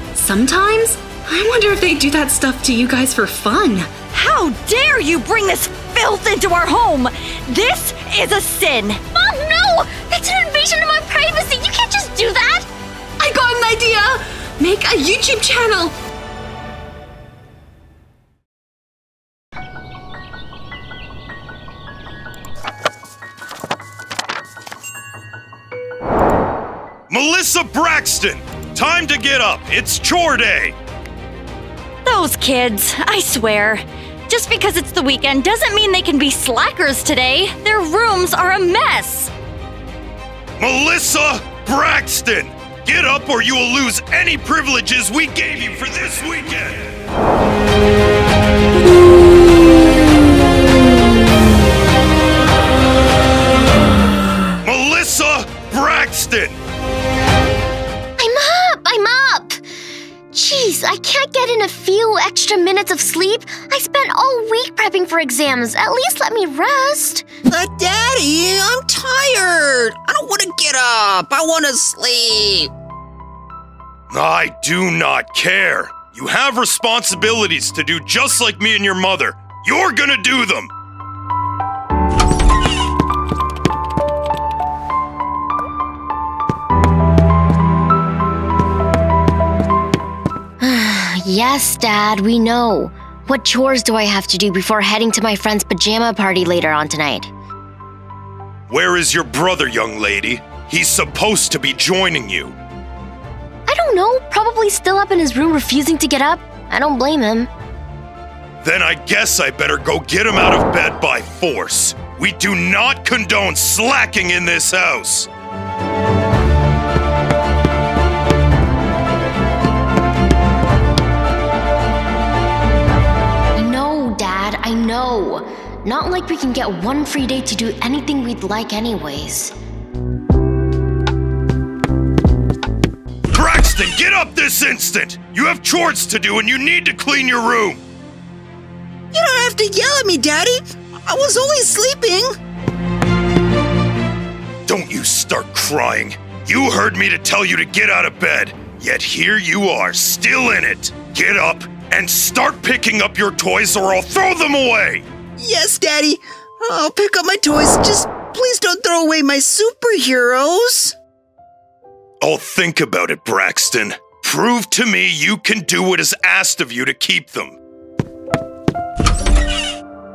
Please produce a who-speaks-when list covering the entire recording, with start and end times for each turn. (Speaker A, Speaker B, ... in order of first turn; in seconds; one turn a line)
Speaker A: 0.1-3.9
Speaker B: 4.1-9.0
Speaker C: 9.1-12.7
Speaker A: 13.2-15.9
Speaker D: 27.1-30.8
Speaker B: 32.0-39.3
Speaker D: 40.6-46.9
Speaker D: 54.6-56.6
Speaker C: 58.2-59.6
Speaker C: 60.3-67.3
Speaker E: 67.5-72.7
Speaker D: 74.1-80.7
Speaker C: 90.6-97.3
Speaker D: 98.7-102.5
Speaker C: 103.7-107.5
Speaker D: 108.6-115.3
Speaker C: 123.5-129.5
Speaker D: 133.3-137.8
Speaker E: 139.1-142.3
Speaker D: 144.7-155.0
Speaker E: 155.4-160.9
Speaker D: 162.2-167.6